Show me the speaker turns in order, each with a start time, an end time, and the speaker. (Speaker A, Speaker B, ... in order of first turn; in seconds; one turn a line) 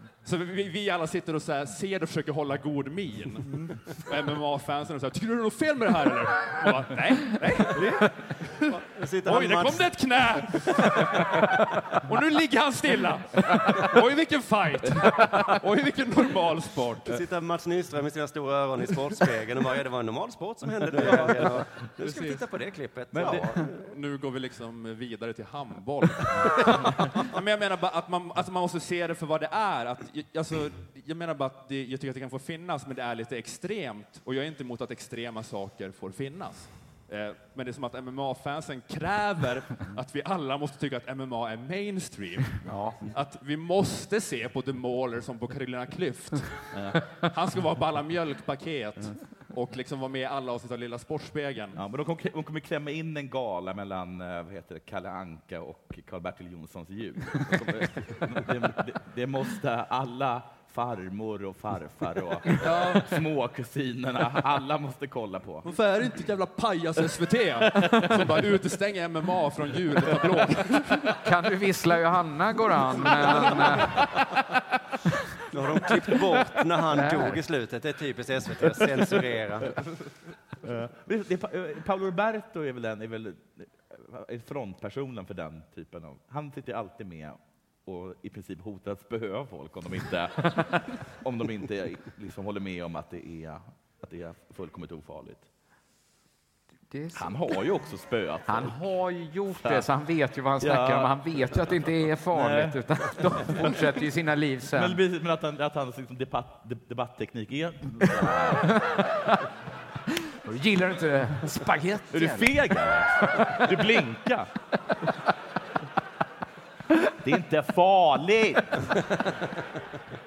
Speaker A: 0.2-17.2
Speaker B: 8.7-9.9
Speaker B: 17.1-23.8
Speaker A: 21.0-21.4
Speaker A: 22.0-22.4
Speaker A: 23.2-51.8
Speaker C: 42.7-43.0
Speaker D: 46.7-47.0
Speaker D: 51.8-65.7
Speaker A: 62.6-63.0
Speaker A: 65.7-71.1
Speaker D: 67.8-68.4
Speaker C: 71.2-74.0
Speaker B: 75.5-79.8
Speaker C: 76.9-77.4
Speaker D: 80.6-95.5
Speaker C: 96.9-97.5
Speaker D: 97.2-98.8
Speaker C: 98.5-105.0
Speaker D: 100.6-101.5
Speaker D: 102.3-103.7
Speaker D: 104.7-108.7
Speaker C: 108.7-109.3
Speaker C: 110.3-112.5
Speaker D: 112.1-114.5
Speaker D: 117.2-119.0